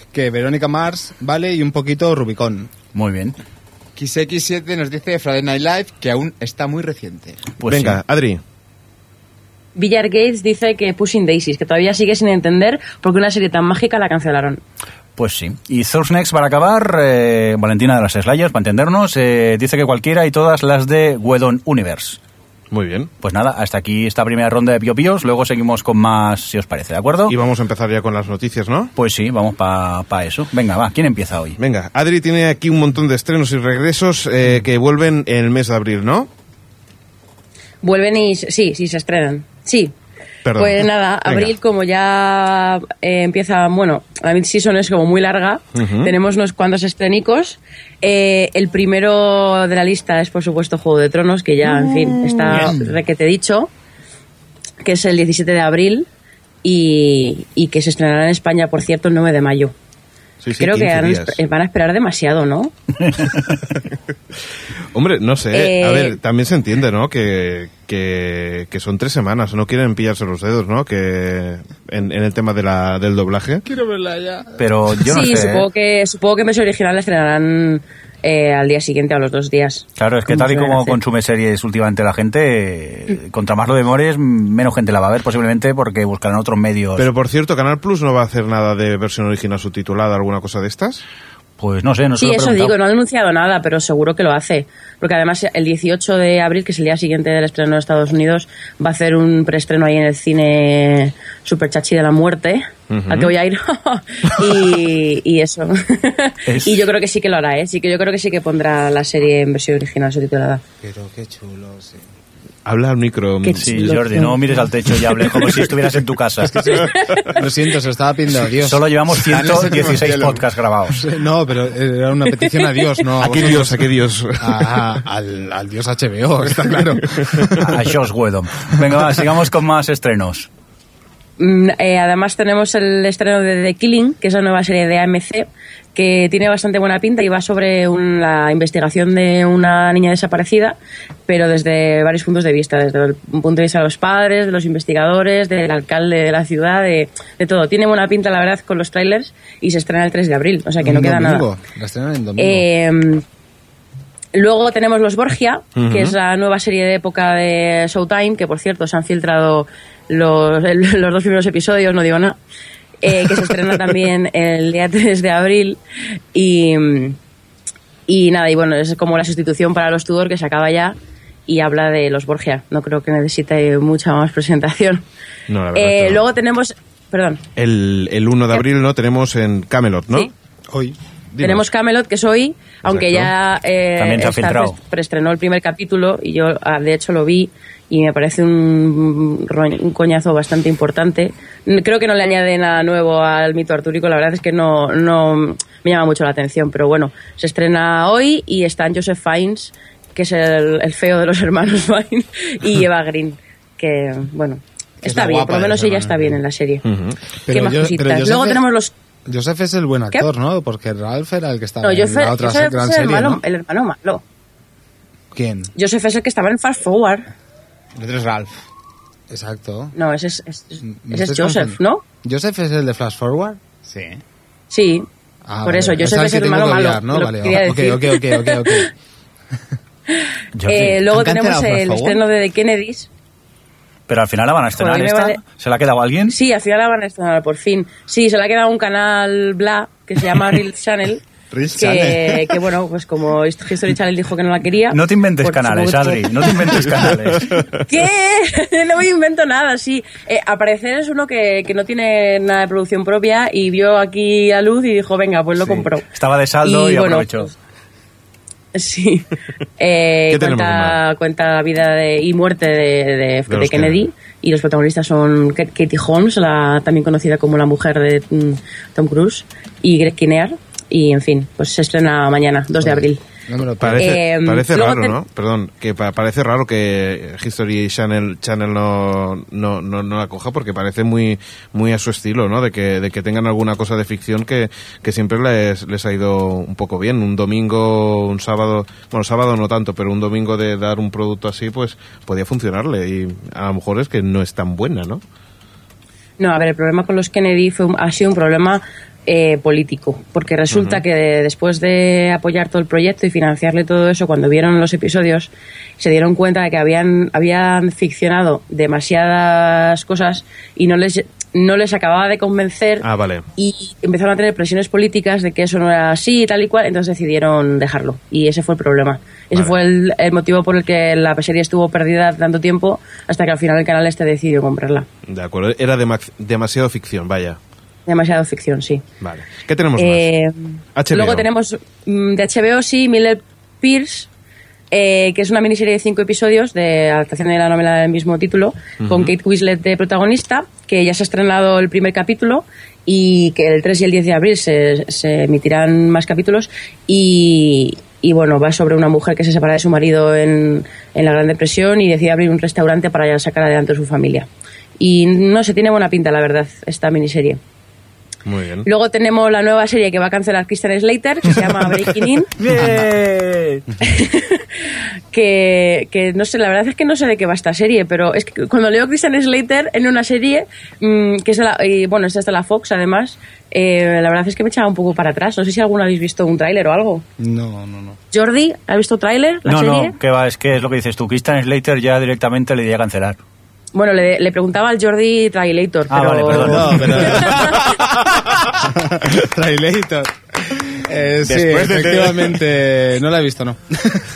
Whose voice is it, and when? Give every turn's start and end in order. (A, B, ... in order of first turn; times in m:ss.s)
0:00.1-0:02.7 A
0:02.9-0:03.4 B
0:04.0-0:07.4 C
0:07.6-0:08.0 B
0:07.7-0:08.4 D
0:09.8-0:14.6 E
0:15.2-0:22.2 B
0:22.7-0:23.1 D
0:23.2-0:27.4 B
0:27.3-0:28.9 D
0:29.0-0:31.6 B
0:31.6-0:36.3 D
0:37.8-0:39.9 E
0:40.4-0:41.6 D
0:40.6-0:53.7 E
0:45.8-0:46.1 D
0:54.8-0:56.1 E
0:56.6-0:59.7 E
1:00.4-1:01.4 D
1:00.6-1:02.7 E
1:03.1-1:03.6 B
1:04.9-1:13.6 D
1:05.5-1:06.2 E
1:13.6-1:14.6 A
1:14.6-1:15.7 B
1:15.1-1:21.0 E
1:20.0-1:27.1 B
1:27.0-1:31.0 D
1:31.6-1:32.8 B
1:32.2-1:50.6 E
1:42.9-1:43.3 D
1:46.5-1:46.8 B
1:50.8-1:52.0 A
1:52.6-1:54.0 D
1:53.4-1:54.6 E
1:53.6-1:56.8 B
1:56.6-2:00.2 A
1:56.7-1:57.3 E
1:58.6-2:01.0 B
1:59.3-2:00.4 C
2:00.9-2:07.8 A
2:02.5-2:03.0 E
2:03.2-2:04.9 D
2:07.6-2:10.5 B
2:11.4-2:20.8 E
2:21.3-2:31.5 E
2:30.8-2:32.6 A
2:32.4-2:33.2 E
2:34.3-2:42.4 E
2:35.8-2:36.2 D
2:43.0-2:45.8 E
2:46.3-2:47.2 E
2:48.1-2:51.0 E
2:51.5-2:55.0 E
2:55.5-2:56.2 D
2:55.7-2:57.4 E
2:57.6-3:00.3 D
3:01.3-3:01.7 D
3:01.4-3:26.8 E
3:02.8-3:03.3 D
3:04.0-3:04.8 B
3:25.0-3:26.4 A
3:26.8-3:27.2 D
3:27.5-3:28.6 A
3:27.5-3:28.9 E
3:29.3-3:33.4 A
3:31.8-3:34.2 E
3:35.3-3:35.7 A
3:35.8-3:37.3 E
3:38.0-3:38.5 C
3:39.3-3:39.9 A
3:40.0-3:42.0 E
3:40.8-3:43.6 A
3:43.9-3:44.2 C
3:44.7-3:45.1 E
3:45.5-3:48.9 A
3:45.6-3:48.8 E
3:50.1-3:53.1 E
3:50.6-3:51.0 B
3:51.0-3:52.2 C
3:54.1-3:56.4 B
3:54.8-3:55.4 E
3:56.3-4:01.2 E
4:01.5-4:02.6 C
4:01.8-4:07.0 E
4:04.9-4:07.6 B
4:07.8-4:16.0 E
4:15.6-4:17.5 B
4:16.6-4:17.5 E
4:18.7-4:33.2 E
4:20.3-4:21.0 D
4:23.5-4:24.1 D
4:32.8-4:34.1 A
4:33.8-4:55.2 D
4:34.0-4:35.1 E
4:56.4-5:13.0 E
5:00.7-5:01.0 D
5:13.0-5:13.5 D
5:13.6-5:25.1 E
5:25.3-5:27.6 D
5:28.1-5:29.0 E
5:29.2-5:30.3 D
5:30.0-5:34.3 E
5:31.0-5:31.5 D
5:34.9-5:54.5 E
5:39.0-5:39.3 D
5:55.0-5:57.6 E
5:58.5-5:58.9 D
5:58.8-6:02.5 E
6:02.6-6:03.8 B
6:04.0-6:17.2 E
6:17.4-6:18.2 A
6:18.3-6:20.2 E
6:19.7-6:23.4 B
6:23.9-6:27.8 E
6:26.1-6:27.5 B
6:26.5-6:28.0 A
6:28.7-6:34.2 A
6:31.5-6:32.5 D